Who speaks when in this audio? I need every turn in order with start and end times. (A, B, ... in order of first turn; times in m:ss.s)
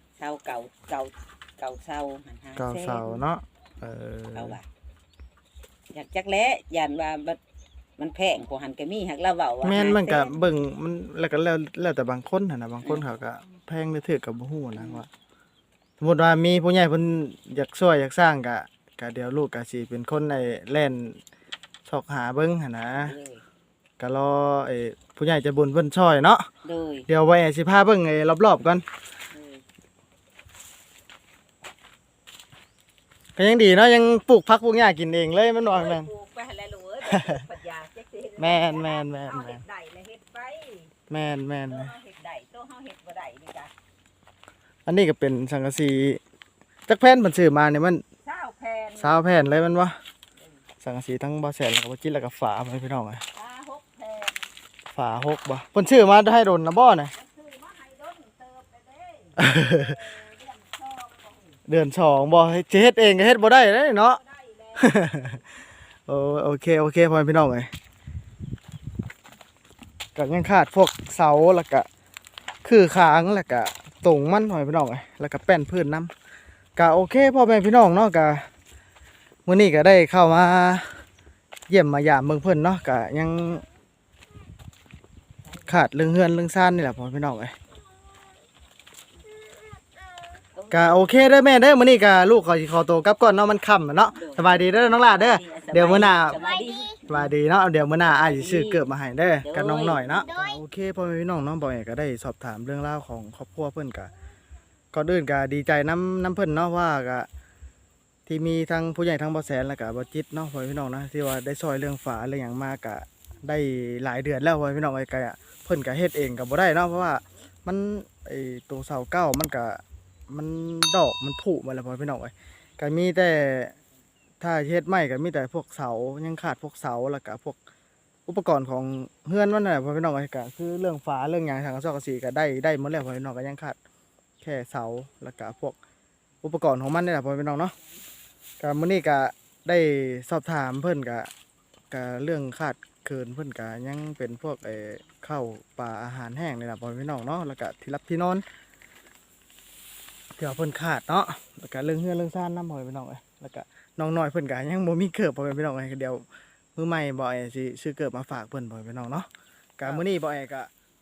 0:00.2-0:03.2 A
0:02.6-0:04.6 B
0:04.3-0:04.7 A
0:05.9-0:07.4 A
0:08.0-0:10.4 A
0:09.6-0:15.1 B
0:14.8-0:15.0 A
0:16.0-0:21.2 B
0:21.9-0:23.1 B
0:23.0-0:23.4 A
0:24.0-0:26.4 B
0:26.6-0:27.1 A
0:27.1-0:28.8 B
0:29.3-0:29.6 A
0:33.4-0:36.1 B
0:35.6-0:40.9 A
0:37.1-0:37.4 B
0:38.4-0:39.6 B
0:41.1-0:41.9 B
0:41.7-0:43.7 A
0:44.9-0:46.2 B
0:46.9-0:48.0 B
0:48.2-0:49.2 A
0:49.0-0:50.0 B
0:50.8-0:53.2 B
0:53.3-0:54.5 A
0:54.9-0:57.1 B
0:57.1-1:01.6 A
0:59.4-0:59.9 B
1:01.7-1:04.2 B
1:04.1-1:05.4 A
1:04.8-1:05.4 B
1:06.1-1:07.7 B
1:10.1-1:11.9 B
1:12.6-1:16.1 B
1:16.8-1:18.5 B
1:19.4-1:21.0 B
1:21.7-1:23.6 B
1:25.6-1:27.5 B
1:30.6-1:31.1 A
1:30.7-1:36.4 B
1:34.1-1:37.3 A
1:37.1-1:44.1 B
1:38.0-1:38.8 A
1:39.4-1:40.3 A
1:44.9-1:47.3 B
1:48.2-2:03.7 B
2:04.4-2:07.6 B
2:08.3-2:13.8 B
2:14.4-2:15.8 B
2:16.4-2:17.7 B
2:18.6-2:21.3 B
2:21.9-2:28.4 B
2:30.4-2:36.2 B
2:36.8-2:40.7 B